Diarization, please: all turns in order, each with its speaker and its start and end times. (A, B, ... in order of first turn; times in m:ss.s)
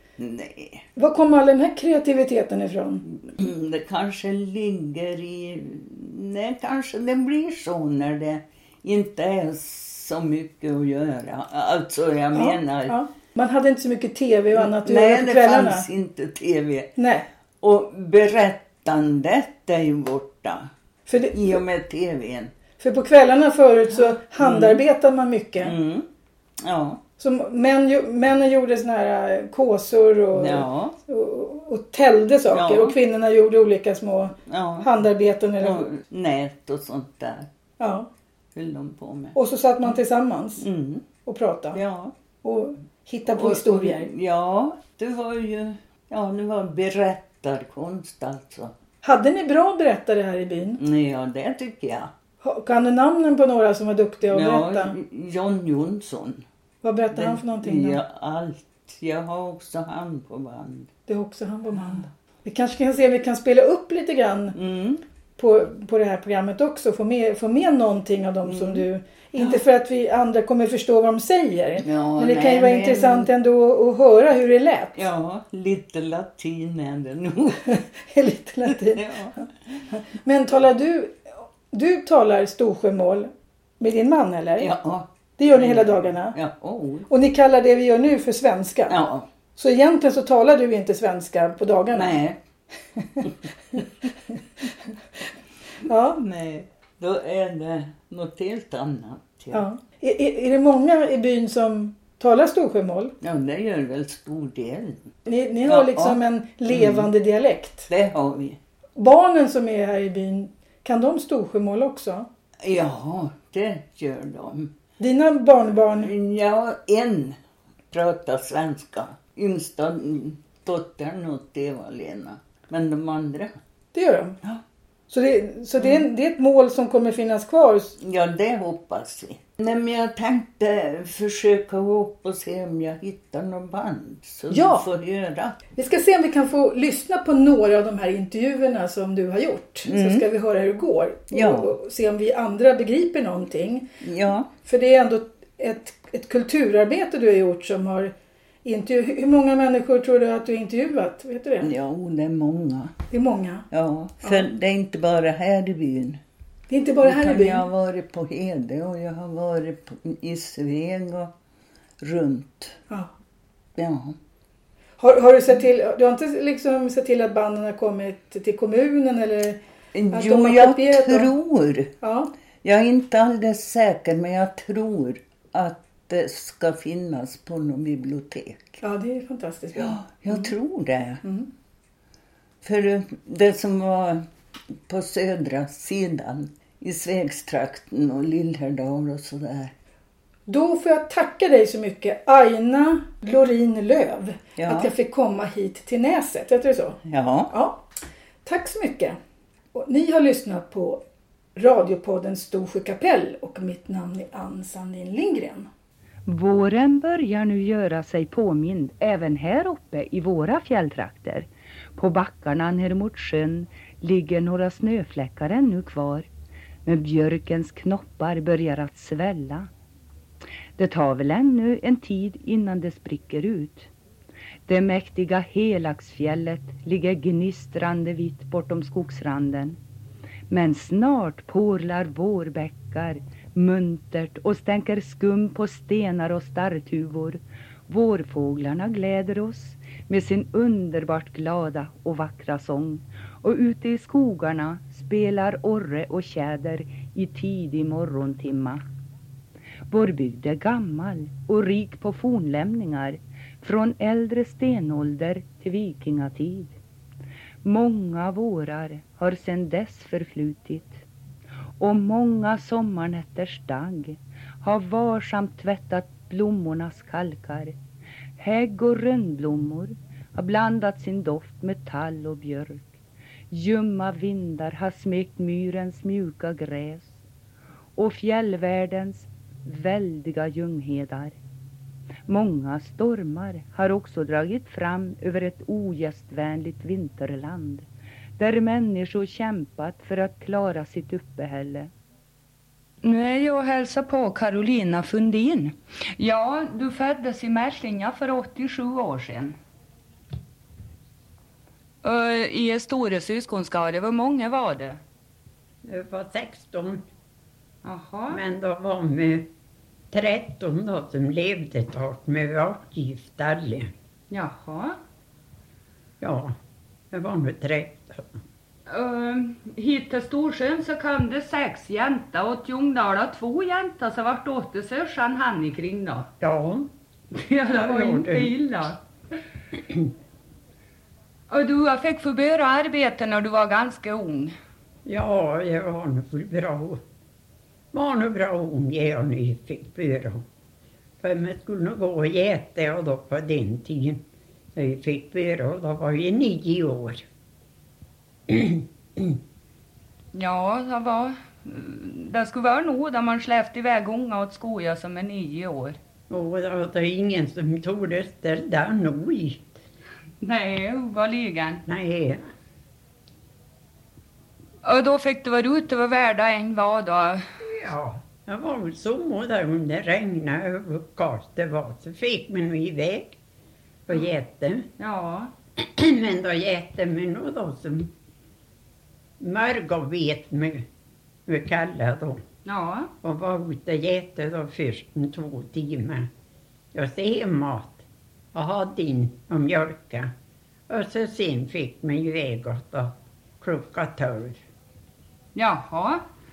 0:00.2-0:00.9 A
0:01.0-0:03.0 B
0:03.2-0:13.0 A
0:12.3-0:15.9 B
0:14.5-0:17.0 A
0:17.0-0:17.3 B
0:17.6-0:20.7 A
0:21.1-0:21.6 B
0:21.3-0:22.5 A
0:22.8-0:25.8 B
0:24.1-0:24.8 A
0:25.6-0:26.1 A
0:26.6-0:27.0 A
0:27.2-0:35.9 B
0:30.4-0:31.0 A
0:32.5-0:33.0 A
0:34.5-0:34.9 A
0:35.6-0:37.5 A
0:37.8-0:38.1 B
0:38.5-0:39.4 A
0:39.4-0:40.7 B
0:40.6-0:41.0 A
0:41.2-0:41.8 B
0:41.7-0:42.2 A
0:42.4-0:44.1 B
0:43.3-0:48.7 A
0:49.0-0:50.8 B
0:50.8-0:52.1 A
0:52.4-0:55.0 B
0:54.3-0:56.4 A
0:56.8-0:58.0 B
0:57.1-1:00.9 A
1:01.1-1:04.6 B
1:04.5-1:05.0 A
1:05.4-1:15.1 B
1:08.4-1:08.8 A
1:11.8-1:13.3 A
1:15.0-1:17.8 A
1:17.7-1:24.7 B
1:18.7-1:19.4 A
1:24.6-1:27.1 A
1:25.4-1:26.4 B
1:27.1-1:29.0 B
1:28.9-1:29.3 A
1:29.6-1:32.2 B
1:31.9-1:32.4 A
1:33.0-1:33.8 B
1:35.8-1:36.2 B
1:36.2-1:39.6 A
1:39.5-1:43.2 B
1:43.2-1:45.1 A
1:45.3-1:47.9 B
1:45.6-1:47.1 A
1:47.9-1:48.6 A
1:49.0-1:52.3 B
1:52.6-1:54.7 A
1:55.0-1:56.1 B
1:56.0-1:57.4 A
1:57.9-2:03.5 A
2:03.9-2:04.4 B
2:05.1-2:08.0 B
2:08.0-2:15.6 A
2:14.5-2:14.9 B
2:15.8-2:23.9 B
2:19.8-2:20.3 A
2:21.3-2:21.8 A
2:24.0-2:24.5 A
2:24.6-2:31.7 B
2:31.6-2:32.9 A
2:33.1-2:33.7 B
2:33.7-2:36.2 A
2:34.2-2:34.5 B
2:36.7-2:37.7 B
2:37.0-2:41.3 A
2:42.0-2:42.8 A
2:43.8-2:44.2 A
2:45.0-2:49.6 B
2:49.9-2:51.9 A
2:50.1-2:51.3 B
2:52.0-2:52.3 B
2:52.6-2:58.8 A
2:58.8-3:00.5 B
2:59.8-3:01.2 A
3:01.2-3:01.5 B
3:02.6-3:04.2 A
3:04.9-3:09.7 A
3:10.5-3:17.8 B
3:14.6-3:14.9 A
3:17.0-3:17.5 A
3:18.4-3:19.2 B
3:19.7-3:21.0 B
3:21.6-3:25.7 B
3:26.2-3:36.3 C
3:36.8-3:39.7 C
3:40.8-3:43.9 C
3:44.7-3:49.8 C
3:50.5-4:08.8 C
4:09.9-4:16.8 C
4:17.6-4:21.0 C
4:21.8-4:27.8 C
4:28.4-4:32.9 C
4:33.5-4:37.2 C
4:38.0-4:41.4 C
4:42.3-4:47.9 C
4:48.4-4:51.9 C
4:53.0-4:59.6 C
5:02.0-5:05.0 C
5:05.8-5:07.0 D
5:07.8-5:08.4 C
5:08.3-5:09.5 D
5:10.1-5:13.9 D
5:14.3-5:15.0 C
5:16.2-5:16.5 D
5:17.1-5:18.3 D
5:18.9-5:26.3 C
5:26.4-5:26.9 D
5:27.3-5:29.0 C
5:27.7-5:28.5 D
5:31.5-5:34.5 C
5:35.1-5:37.0 D
5:37.9-5:40.4 D
5:41.2-5:47.2 D
5:48.5-5:49.4 D
5:50.3-5:56.0 C
5:56.3-5:59.7 D
6:00.4-6:01.8 C
6:01.9-6:02.4 D
6:04.8-6:07.4 C
6:07.6-6:13.4 D
6:14.1-6:14.9 D
6:15.0-6:15.5 C
6:15.8-6:18.1 D
6:19.4-6:20.9 D
6:21.5-6:22.4 D
6:22.6-6:23.1 C
6:23.2-6:26.3 D
6:26.9-6:30.3 D
6:30.9-6:34.6 D
6:35.6-6:36.2 C